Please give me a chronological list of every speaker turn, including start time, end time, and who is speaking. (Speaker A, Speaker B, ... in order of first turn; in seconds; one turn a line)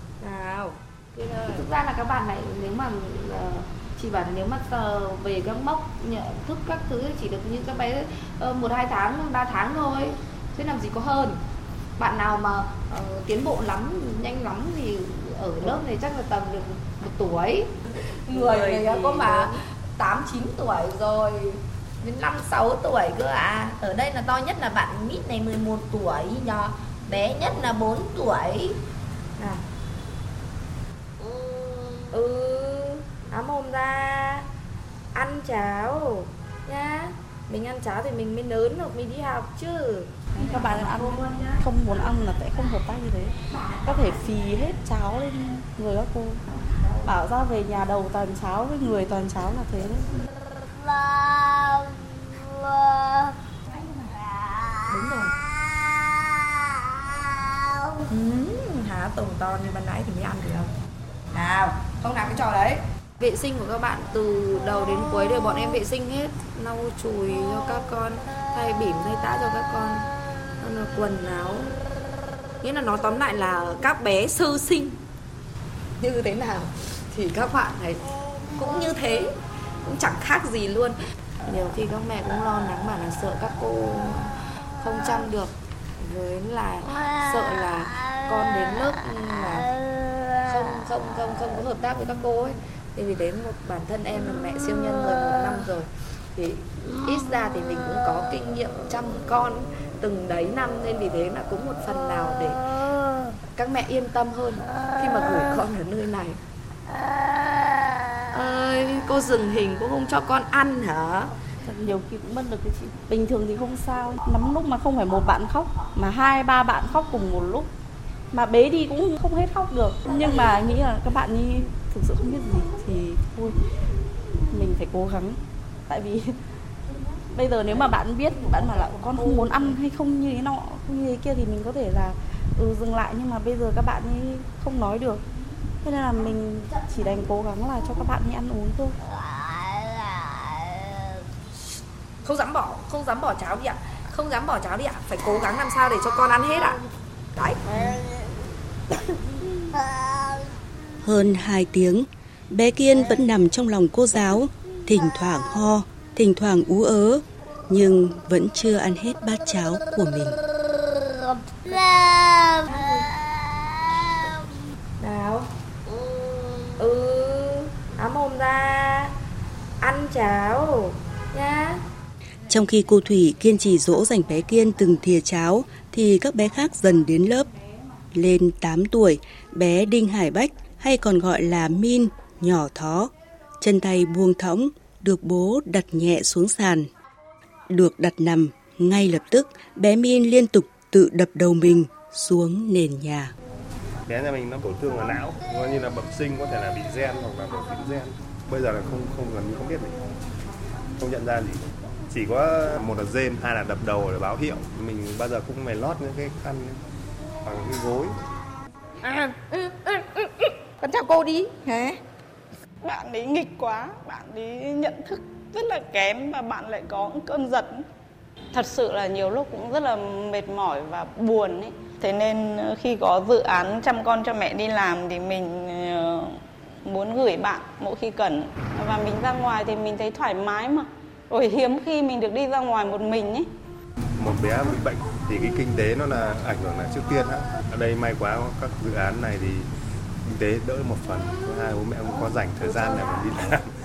Speaker A: 0.2-11.4
Speaker A: 12.0-17.7
Speaker A: 18.3-28.8
Speaker A: 32.1-34.5
Speaker A: 35.1-40.3
Speaker B: 40.4-46.4
Speaker B: 47.0-50.2
Speaker A: 53.8-54.1
Speaker A: 54.9-55.3
Speaker A: 58.1-60.7
Speaker A: 61.3-70.1
Speaker A: 70.6-71.8
Speaker A: 72.6-75.0
Speaker A: 76.0-78.0
Speaker A: 78.6-79.3
Speaker A: 79.8-89.7
Speaker A: 90.4-102.6
Speaker A: 103.5-106.4
Speaker A: 108.3-111.3
Speaker B: 111.7-117.7
Speaker B: 118.3-123.6
Speaker B: 124.5-126.4
Speaker B: 127.3-135.2
Speaker B: 135.8-139.0
Speaker A: 142.2-146.8
Speaker A: 147.3-148.0
Speaker C: 151.0-160.4
Speaker A: 162.6-163.1
Speaker A: 165.0-165.5
Speaker A: 166.8-169.2
Speaker A: 169.8-171.8
Speaker C: 172.5-177.5
Speaker C: 178.1-186.9
Speaker C: 187.7-193.3
Speaker D: 194.1-200.2
Speaker D: 201.0-206.8
Speaker D: 207.4-208.2
Speaker E: 209.1-210.1
Speaker E: 210.8-211.9
Speaker F: 212.8-217.8
Speaker F: 218.5-233.5
Speaker D: 234.2-239.7
Speaker D: 240.2-243.7
Speaker A: 242.6-243.2